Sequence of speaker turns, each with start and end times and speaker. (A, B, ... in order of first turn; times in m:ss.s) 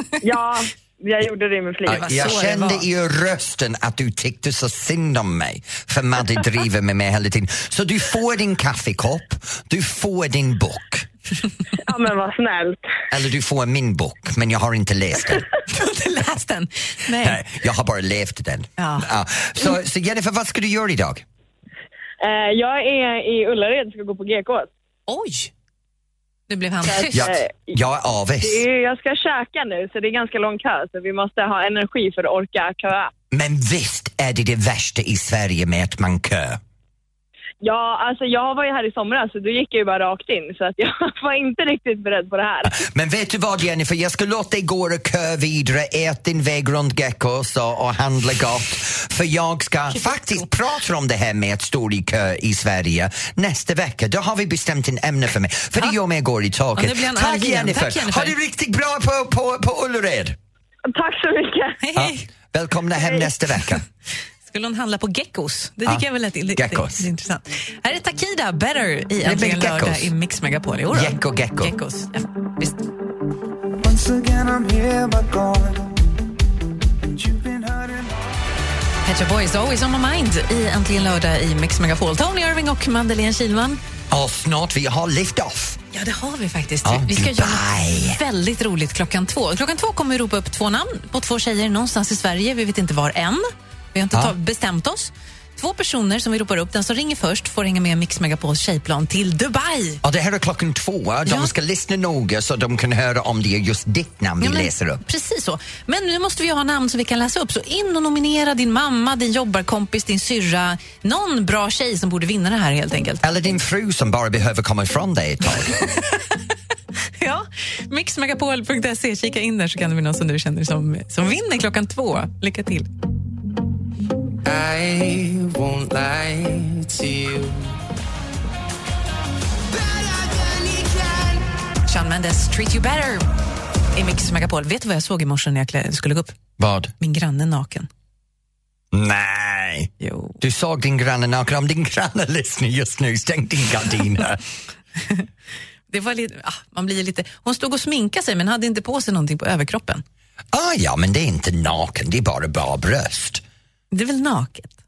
0:00.2-0:02.2 A
0:01.8-0:11.1 B
0:01.9-0:02.8 C
0:11.8-0:12.8 A
0:13.1-0:15.4 B
0:15.7-0:17.4 C
0:17.2-0:21.2 B
0:18.8-0:19.1 C
0:22.2-0:24.7 A
0:25.1-0:25.5 C
0:26.5-0:27.3 C
0:26.9-0:27.7 A
0:27.1-0:28.6 B
0:28.4-0:33.1 A
0:33.3-0:36.6 B
0:37.6-0:42.8 A
0:42.6-1:00.4 B
0:49.9-0:50.4 C
0:56.8-0:58.3 C
1:00.9-1:01.8 A
1:01.8-1:02.3 C
1:01.9-1:03.8 B
1:04.5-1:12.8 C
1:06.6-1:07.1 B
1:09.2-1:10.1 B
1:10.9-1:11.7 B
1:13.8-1:16.0 B
1:17.1-1:18.1 B
1:19.0-1:23.8 C
1:24.1-1:25.8 B
1:25.9-1:40.0 C
1:26.8-1:28.2 B
1:40.0-1:45.0 B
1:41.2-1:41.5 C
1:44.4-1:53.2 C
1:53.2-1:55.8 B
1:57.2-2:02.9 C
2:11.8-2:13.3 C
2:13.9-2:16.4 C
2:16.6-2:16.9 B
2:17.0-2:17.9 C
2:18.9-2:24.4 B
2:20.0-2:20.4 C
2:25.9-2:30.0 C
2:30.5-2:33.4 B
2:33.9-2:34.8 C